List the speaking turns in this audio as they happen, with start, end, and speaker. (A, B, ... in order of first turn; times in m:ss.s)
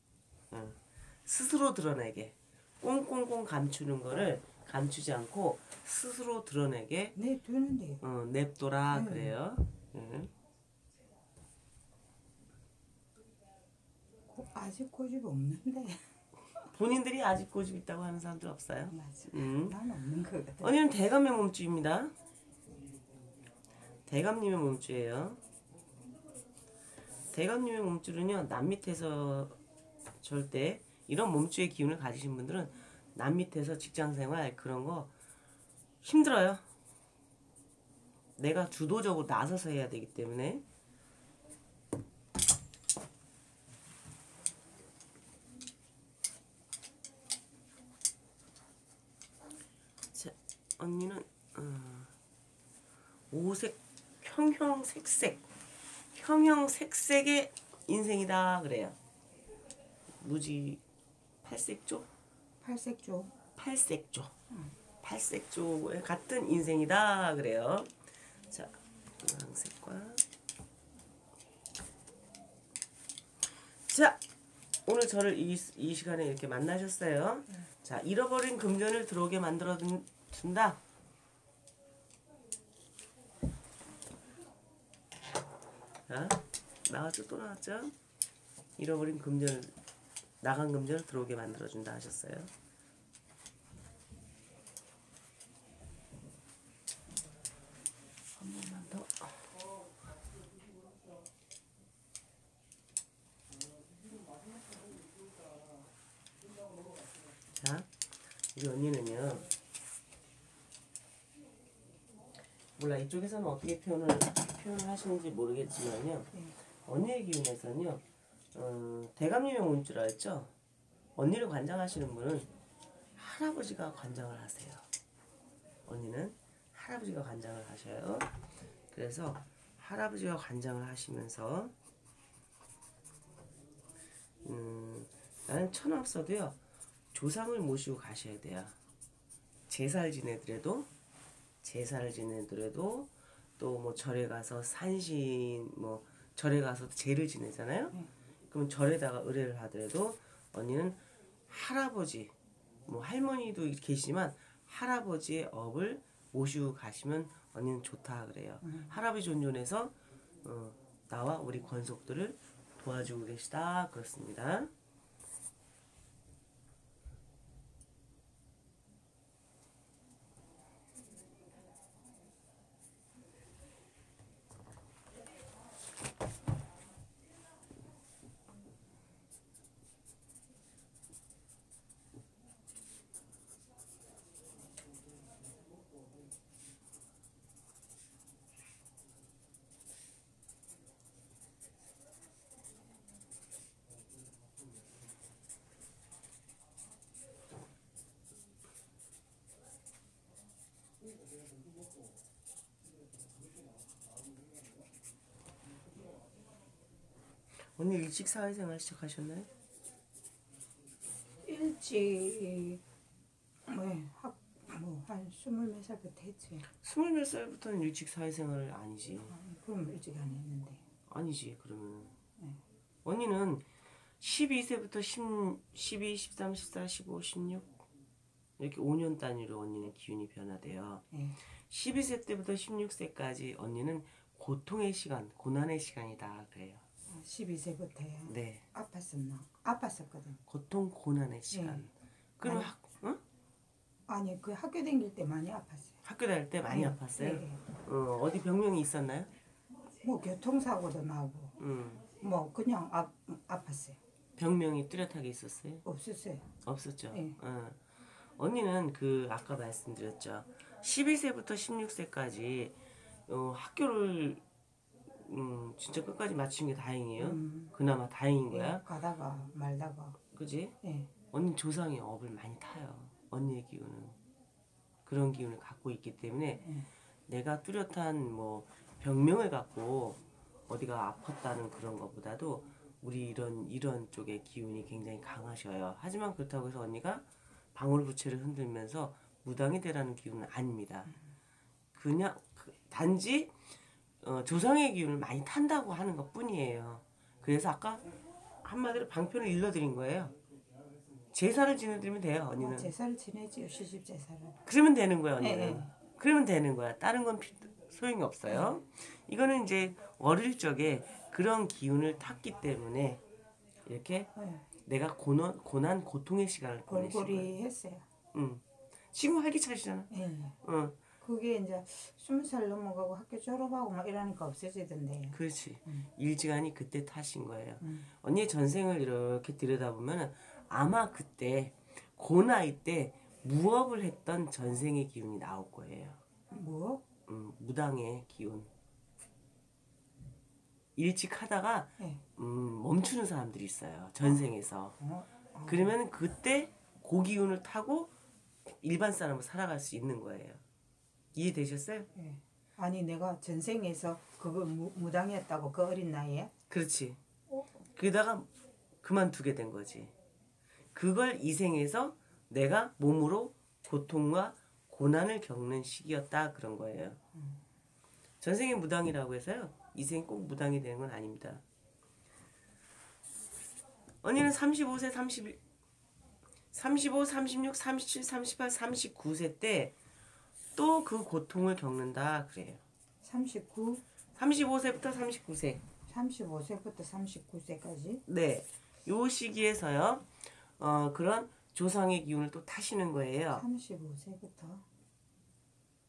0:00.5-0:07.2 A
0:07.2-0:08.0 B
0:08.0-0:10.3 A
0:08.9-0:09.4 B
0:14.3-0:16.0 B
0:16.7-0:19.8 A
0:18.9-0:20.7 B
0:20.6-0:22.1 A
0:24.1-0:25.4 A
0:27.3-0:29.6 A
0:30.2-0:35.1 A
0:36.0-0:36.6 A
0:38.4-0:40.6 A
0:50.1-0:52.1 A
0:53.3-0:55.4 A
0:56.1-0:59.0 A
1:00.2-1:00.8 A
1:01.4-1:02.1 A
1:02.6-1:03.3 B
1:03.6-1:04.3 A
1:05.0-1:08.0 A
1:08.5-1:10.2 A
1:13.9-1:14.2 A
1:14.8-1:20.8 A
1:26.1-1:27.9 A
1:28.8-1:29.7 A
1:30.4-1:32.5 A
1:38.4-1:39.3 A
1:47.5-1:47.9 A
1:48.5-1:49.5 A
1:52.8-1:58.0 A
1:58.5-2:00.5 A
2:01.2-2:02.5 A
2:03.2-2:04.8 A
2:05.8-2:08.4 A
2:08.9-2:11.7 A
2:14.4-2:16.6 A
2:17.1-2:18.8 A
2:19.7-2:20.9 A
2:21.6-2:28.0 A
2:28.5-2:32.3 A
2:32.8-2:44.7 A
2:38.6-2:38.9 B
3:27.8-3:29.5 A
3:31.4-3:32.8 B
3:33.7-3:36.6 B
3:36.8-3:39.3 A
3:39.3-3:40.8 B
3:41.1-3:42.1 A
3:43.0-3:43.6 A
3:44.2-3:47.8 A
3:48.6-3:51.0 A
3:51.1-3:51.4 B
3:51.6-3:56.8 A
3:57.1-4:00.4 B
3:58.3-3:58.7 A
4:00.5-4:03.2 A
4:01.5-4:01.9 B
4:02.4-4:02.7 B
4:04.1-4:06.0 B
4:06.0-4:09.3 A
4:06.7-4:07.6 B
4:10.0-4:11.6 B
4:11.6-4:12.1 A
4:12.2-4:14.0 B
4:14.4-4:15.8 A
4:15.8-4:16.5 B
4:16.6-4:17.8 A
4:17.1-4:17.4 B
4:18.4-4:24.4 A
4:25.1-4:28.9 A
4:27.2-4:27.7 B
4:28.5-4:30.2 B
4:30.3-4:30.8 A
4:30.8-4:31.1 B
4:31.3-4:34.2 A
4:35.0-4:36.7 A
4:36.6-4:36.9 B
4:37.3-4:51.1 A
4:51.9-4:53.5 A
4:54.2-4:58.0 A
4:58.6-5:00.4 A
5:01.3-5:02.9 A
5:02.6-5:04.6 B
5:04.6-5:13.2 A
5:05.4-5:05.9 B
5:13.8-5:14.3 A
5:14.4-5:14.7 B
5:14.8-5:17.5 A
5:16.9-5:18.0 B
5:18.3-5:20.1 A
5:20.1-5:20.6 B
5:20.6-5:21.0 A
5:21.2-5:26.1 B
5:25.3-5:36.2 A
5:27.8-5:28.1 B
5:36.5-5:37.0 B
5:37.3-5:38.7 A
5:41.0-5:45.0 A
5:45.0-5:46.0 B
5:45.6-5:48.1 A
5:48.7-5:50.6 A
5:51.3-5:52.1 A
5:52.1-5:56.5 B
5:56.7-5:57.2 A
5:57.9-5:58.5 A
5:59.0-6:00.1 A
6:00.9-6:07.2 A
6:08.4-6:11.6 A
6:14.2-6:15.6 A
6:16.7-6:20.0 A
6:20.8-6:22.8 A
6:23.2-6:24.0 B
6:24.3-6:25.8 A
6:26.1-6:28.2 B
6:28.2-6:33.6 A
6:33.5-6:34.8 B